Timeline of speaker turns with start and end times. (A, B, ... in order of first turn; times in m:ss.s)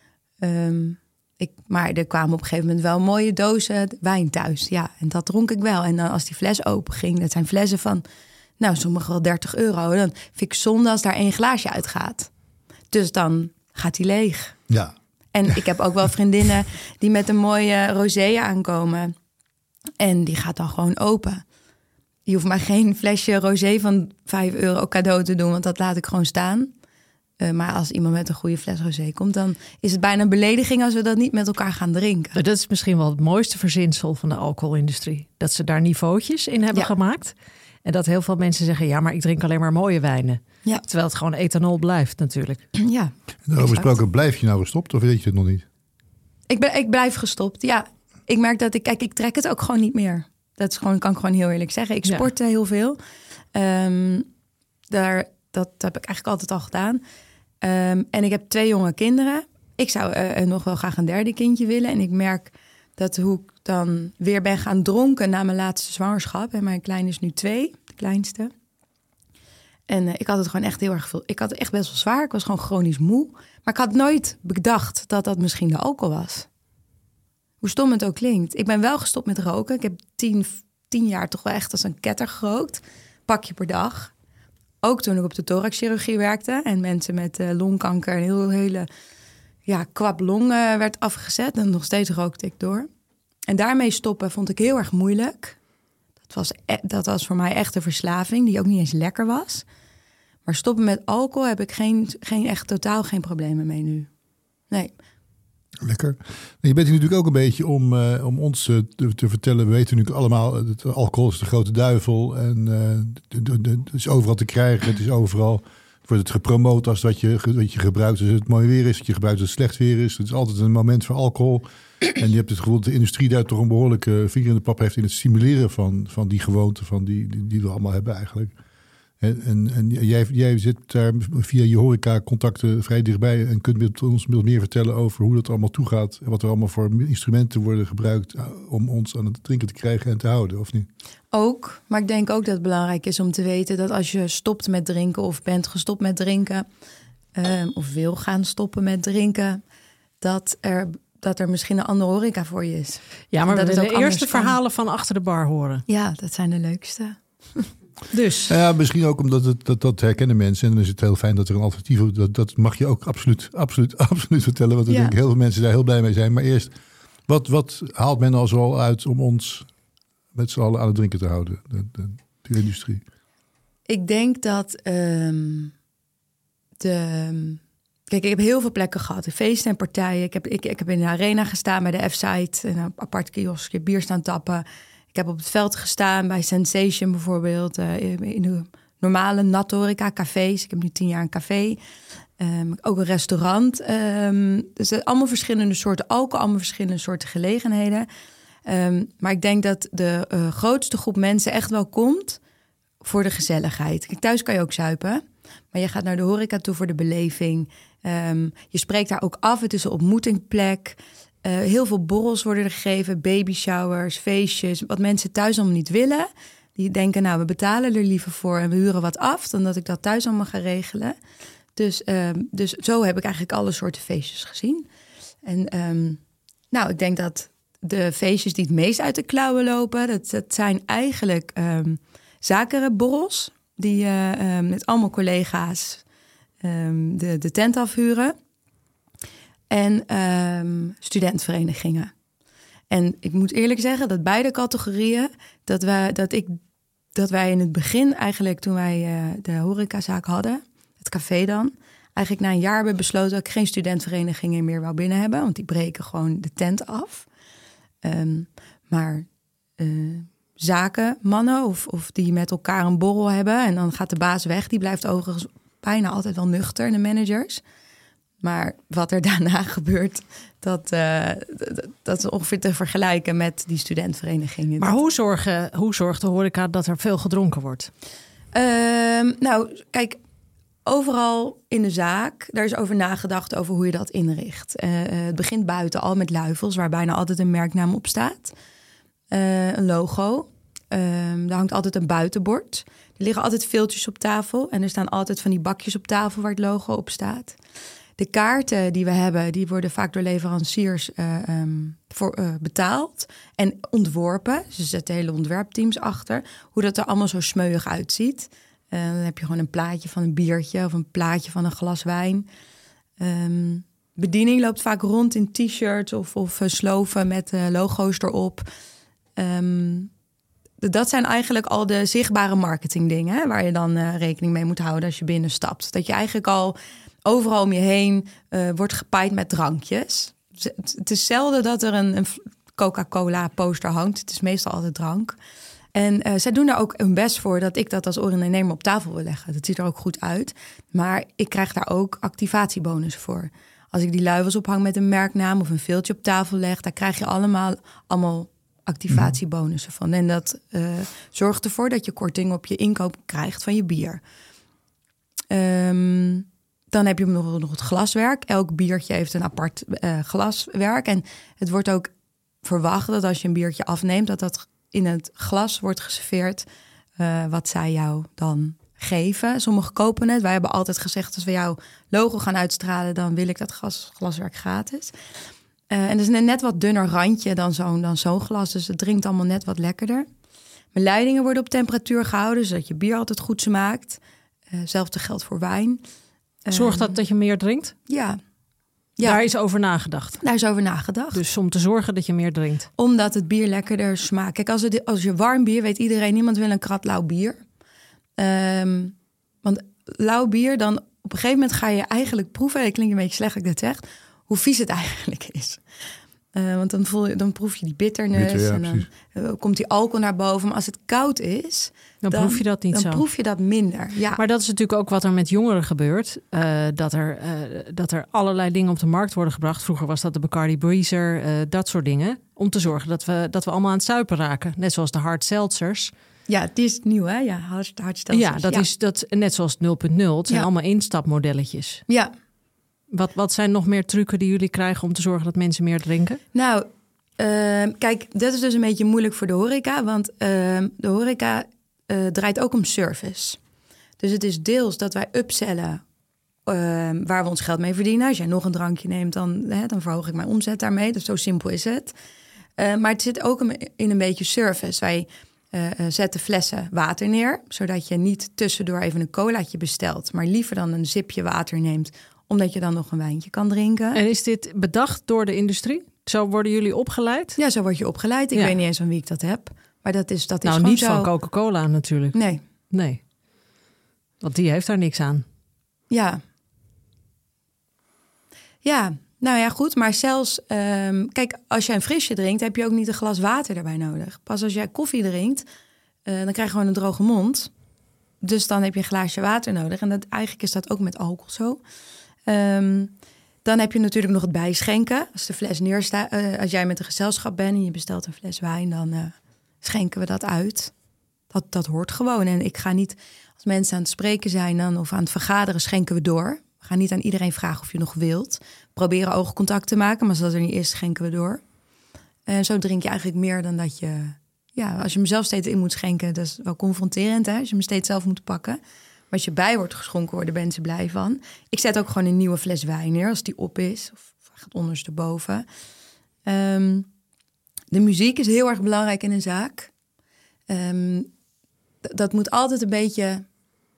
0:00.4-0:08.0 A
0:08.6-0:12.3 A
0:12.9-0:14.6 A
0:14.7-0:14.9 B
0:15.3-0:19.2 A
0:20.0-0:21.4 A
0:22.3-0:26.7 A
0:27.4-0:32.4 A
0:32.4-0:42.7 C
0:42.8-0:44.0 A
0:43.5-0:45.6 B
0:46.5-0:53.0 A
0:53.5-0:54.3 A
0:54.9-0:57.0 A
0:57.6-1:08.5 A
1:09.9-1:16.5 A
1:17.6-1:24.1 A
1:24.8-1:28.9 A
1:29.7-1:32.9 A
1:33.5-1:35.6 A
1:36.3-1:39.6 A
1:40.5-1:44.1 A
1:44.7-1:45.0 A
1:45.8-2:08.5 B
2:09.2-2:20.9 B
2:21.3-2:26.7 A
2:27.4-2:29.6 A
2:30.2-2:34.6 A
2:33.3-2:35.8 C
2:35.9-2:37.7 A
2:38.1-2:38.5 C
2:38.5-2:46.7 B
2:44.9-2:45.1 A
2:47.3-2:49.7 B
2:50.3-2:53.0 B
2:53.9-2:55.7 A
2:56.8-3:11.8 A
3:12.4-3:18.1 A
3:18.6-3:22.4 A
3:23.0-3:41.2 A
3:41.8-3:44.9 A
3:45.4-3:46.2 A
3:46.7-3:56.0 A
3:56.6-3:58.4 A
3:59.7-4:02.1 A
4:02.9-4:06.6 A
4:07.2-4:17.3 A
4:18.0-4:19.3 A
4:19.8-4:27.6 A
4:28.4-4:35.0 A
4:34.8-4:37.9 C
4:38.5-4:40.2 A
4:40.9-4:48.5 A
4:49.3-4:57.6 A
4:58.2-5:12.5 A
5:13.2-5:18.7 A
5:19.4-5:20.1 A
5:20.8-5:35.4 A
5:35.9-5:54.2 A
5:55.5-6:02.1 A
6:02.6-6:06.7 A
6:07.2-6:15.1 A
6:15.9-6:20.3 A
6:20.9-6:24.2 A
6:24.7-6:26.0 A
6:26.7-6:27.2 A
6:26.7-6:28.0 C
6:28.1-6:28.4 A
6:29.2-6:30.4 C
6:30.4-6:31.4 A
6:31.3-6:32.9 C
6:33.0-6:37.6 A
6:38.4-6:45.8 A
6:46.5-6:54.4 A
6:48.3-6:49.1 B
6:52.2-6:53.2 C
6:54.4-7:06.1 C
7:06.5-7:08.9 A
7:08.3-7:12.0 C
7:13.1-7:16.4 C
7:16.5-7:23.6 A
7:24.2-7:26.0 A
7:26.7-7:32.1 A
7:32.8-7:44.2 A
7:44.1-7:47.6 C
7:47.6-7:51.3 A
7:50.6-7:52.4 C
7:52.3-7:52.6 A
7:52.9-7:53.2 C
7:54.4-7:55.4 C
7:56.1-7:56.4 A
7:58.8-8:05.6 A
8:06.3-8:07.7 A
8:08.4-8:11.8 A
8:12.5-8:13.1 A
8:13.6-8:20.9 A
8:21.5-8:31.6 A
8:32.5-8:38.8 A
8:39.3-8:45.6 A
8:46.5-8:47.1 A
8:47.9-8:49.9 A
8:50.7-8:51.3 A
8:52.0-8:53.5 A